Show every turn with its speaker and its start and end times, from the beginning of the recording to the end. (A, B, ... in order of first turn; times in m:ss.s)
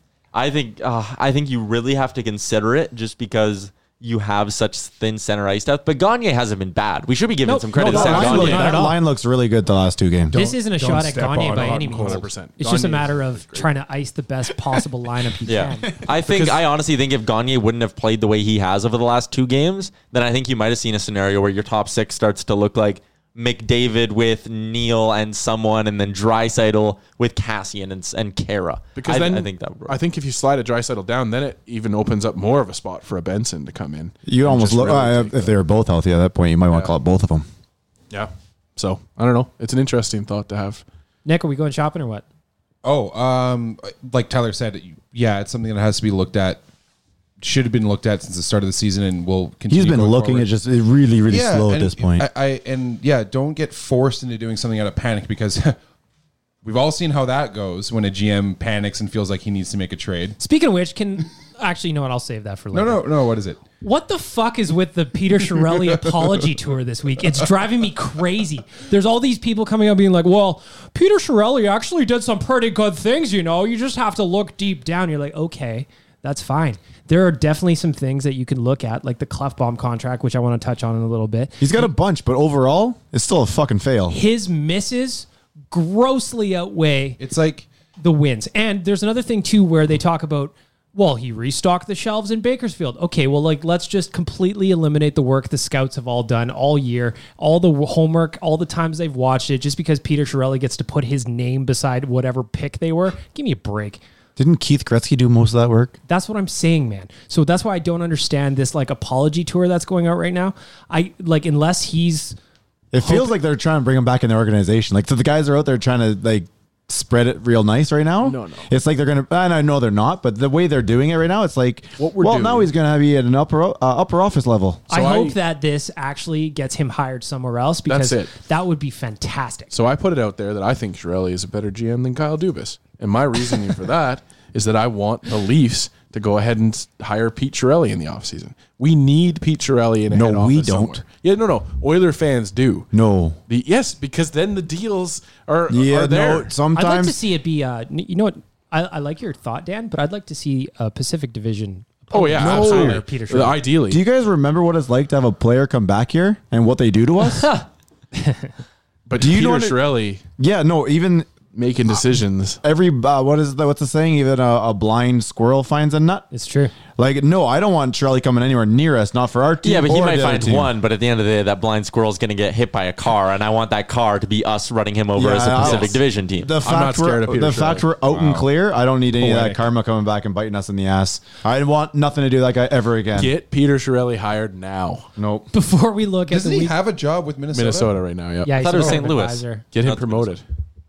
0:00.3-0:08.8 A
0:07.4-0:09.0 B
0:07.8-0:10.4 C
0:08.0-0:08.6 D
0:10.3-0:15.9 B
0:10.4-0:12.3 E
0:10.8-0:13.7 D
0:15.5-0:30.0 A
0:16.3-0:16.6 D
0:29.0-0:35.5 D
0:34.3-0:37.5 C
0:38.1-0:40.8 D
0:41.2-0:42.2 B
0:42.8-0:46.6 E
0:47.4-0:50.5 E
0:49.7-0:52.3 C
0:51.3-0:55.8 E
0:56.6-1:00.4 E
1:00.4-1:03.1 B
1:02.7-1:03.6 E
1:03.8-1:21.9 B
1:21.6-1:24.2 C
1:24.1-1:27.2 B
1:27.2-1:27.7 E
1:28.0-1:44.0 B
1:44.4-1:46.0 C
1:46.1-1:52.4 B
1:52.9-2:04.8 C
1:53.0-1:53.4 B
1:58.2-1:58.7 D
2:02.0-2:02.7 D
2:04.9-2:05.4 D
2:04.9-2:09.7 B
2:07.9-2:08.3 D
2:09.7-2:22.9 D
2:20.1-2:21.0 C
2:22.9-2:23.4 C
2:23.5-2:26.5 D
2:25.7-2:27.2 C
2:26.8-2:33.6 B
2:32.1-2:34.0 D
2:32.4-2:33.0 C
2:33.9-2:37.5 C
2:37.4-2:38.5 B
2:39.1-2:40.2 D
2:39.2-2:39.8 C
2:40.4-2:41.3 C
2:41.5-2:42.6 D
2:42.6-2:46.3 C
2:46.3-2:46.7 B
2:47.0-2:50.7 C
2:49.6-2:56.5 A
2:55.2-3:03.3 C
2:55.6-2:56.0 D
2:56.6-2:57.9 D
2:58.0-2:58.5 E
2:59.2-2:59.5 E
3:03.1-3:05.1 D
3:05.2-3:05.5 C
3:05.5-3:06.8 B
3:06.3-3:08.0 E
3:07.5-3:09.0 D
3:08.4-3:09.6 B
3:08.5-3:10.2 A
3:09.7-3:10.4 D